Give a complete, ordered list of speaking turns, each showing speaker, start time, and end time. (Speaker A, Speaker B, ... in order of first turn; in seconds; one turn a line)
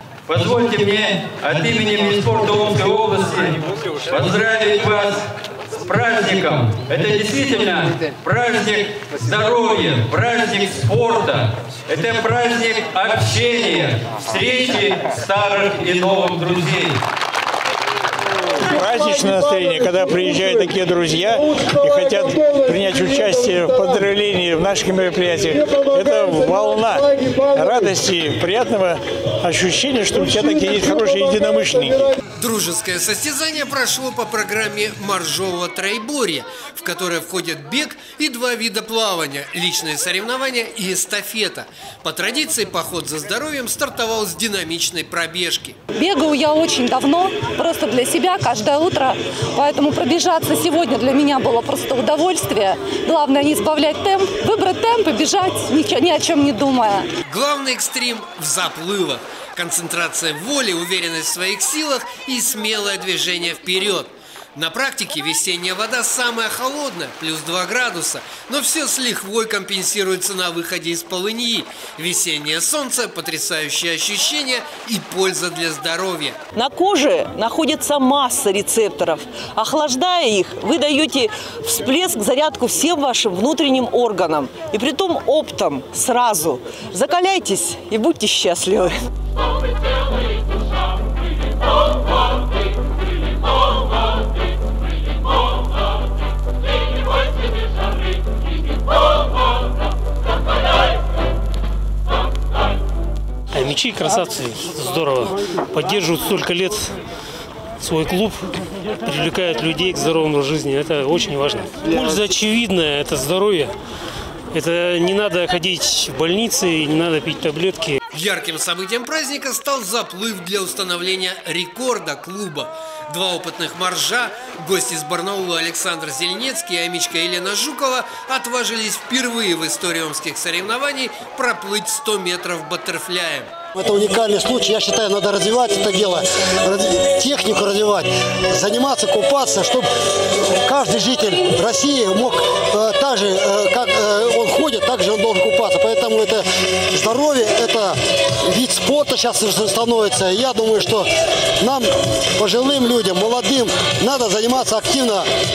Speaker A: 0.3-5.2
Speaker A: 5.8-17.0
Speaker B: 18.6-32.1
Speaker C: 32.4-45.8
Speaker D: 45.9-57.1
Speaker C: 57.2-76.4
Speaker E: 76.5-89.0
Speaker F: 103.5-106.9
Speaker F: 107.8-113.7
Speaker F: 114.5-118.0
Speaker C: 118.1-133.5
Speaker G: 133.7-139.9
Speaker G: 140.4-151.1
Speaker G: 151.6-155.3